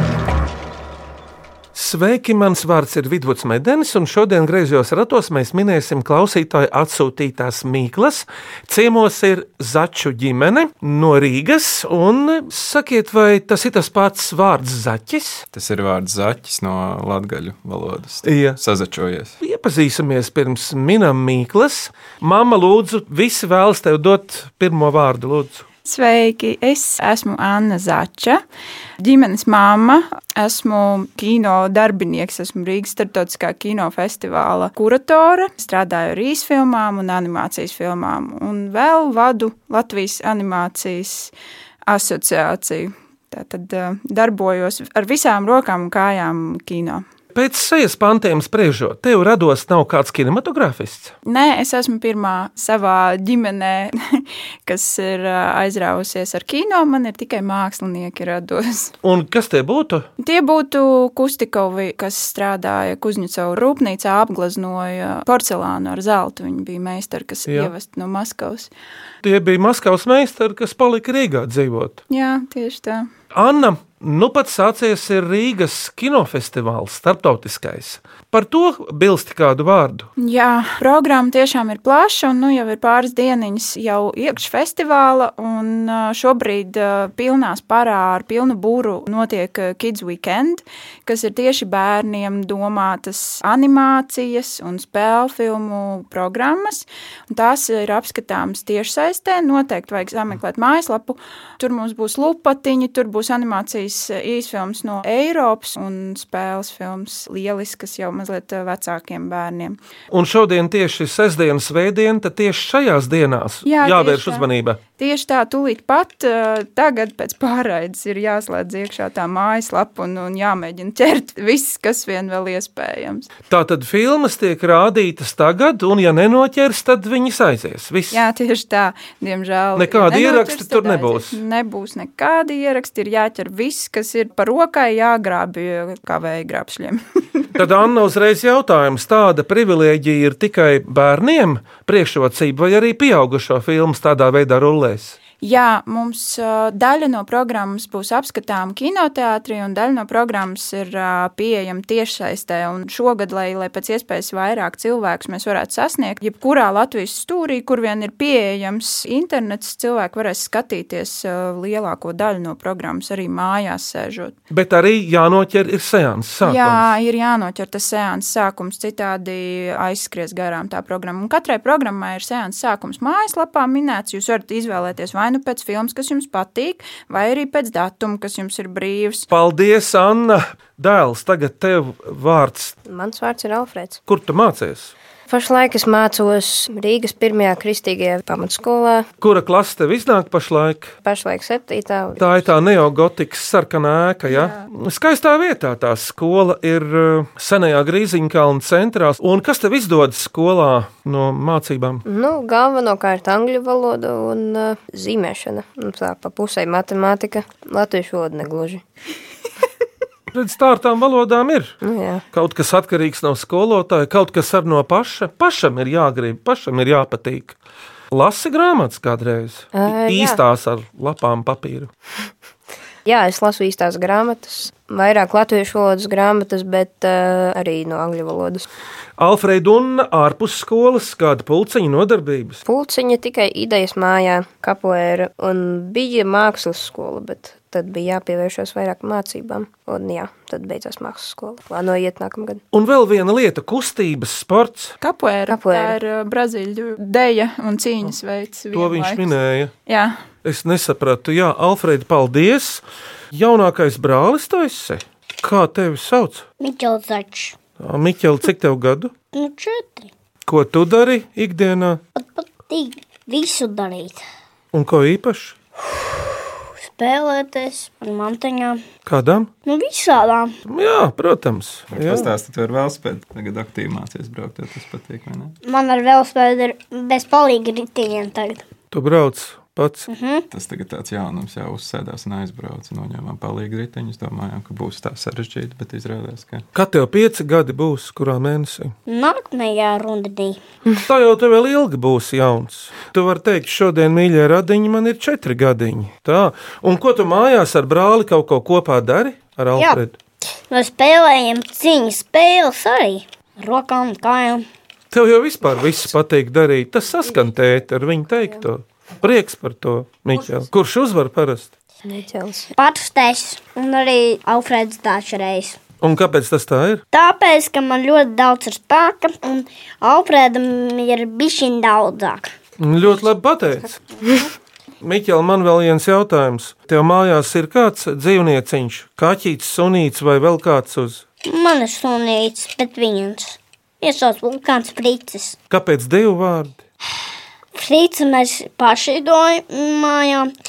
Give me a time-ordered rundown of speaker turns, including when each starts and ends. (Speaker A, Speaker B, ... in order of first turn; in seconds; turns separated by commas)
Speaker A: 1.7-15.4, Speaker B: 15.5-19.3, Speaker A: 18.2-18.6, Speaker A: 19.4-25.6, Speaker C: 25.8-28.4, Speaker C: 29.0-41.3, Speaker C: 41.9-47.0, Speaker A: 47.3-51.1, Speaker C: 51.2-58.9, Speaker A: 59.0-60.1, Speaker C: 60.2-68.7, Speaker A: 67.5-67.7, Speaker A: 69.2-72.0, Speaker C: 72.1-73.1, Speaker A: 73.3-80.1, Speaker C: 80.2-109.8, Speaker A: 110.1-114.8, Speaker C: 113.6-123.3, Speaker A: 123.5-128.2, Speaker C: 128.1-137.6, Speaker A: 129.8-131.4, Speaker A: 137.6-145.2, Speaker C: 145.4-164.3, Speaker A: 164.5-166.8, Speaker C: 166.4-179.3, Speaker A: 179.3-182.7, Speaker D: 182.8-184.0, Speaker A: 184.1-184.9, Speaker D: 185.3-189.1, Speaker A: 189.2-190.9, Speaker D: 191.0-192.3, Speaker A: 192.2-202.0, Speaker C: 194.3-194.6, Speaker D: 202.1-208.8, Speaker A: 210.3-211.8, Speaker D: 211.8-212.2, Speaker A: 212.3-217.6, Speaker A: 218.1-221.9, Speaker D: 219.7-220.4, Speaker D: 223.0-228.7, Speaker A: 229.2-232.6, Speaker D: 232.6-242.6, Speaker A: 242.7-244.9, Speaker C: 245.0-249.3, Speaker D: 245.5-246.0, Speaker A: 248.7-249.7, Speaker C: 249.9-250.2, Speaker A: 250.4-256.4, Speaker E: 256.6-257.6, Speaker A: 257.8-259.1, Speaker E: 259.3-260.1, Speaker A: 260.4-262.0, Speaker E: 262.1-264.2, Speaker A: 264.7-265.6, Speaker E: 266.1-268.8, Speaker A: 269.1-269.5, Speaker E: 269.6-270.5, Speaker A: 270.6-272.3, Speaker B: 271.9-275.5, Speaker E: 275.6-278.7, Speaker A: 278.9-280.1, Speaker E: 280.1-280.4, Speaker B: 280.5-286.6, Speaker A: 286.7-288.9, Speaker E: 289.1-290.6, Speaker A: 290.9-300.1, Speaker E: 300.7-304.6, Speaker A: 305.1-311.7, Speaker D: 312.0-312.7, Speaker E: 312.7-315.8, Speaker A: 316.0-317.0, Speaker E: 317.1-322.5, Speaker A: 322.8-324.0, Speaker A: 325.0-331.2, Speaker E: 331.4-335.6, Speaker A: 335.7-336.7, Speaker E: 337.7-340.5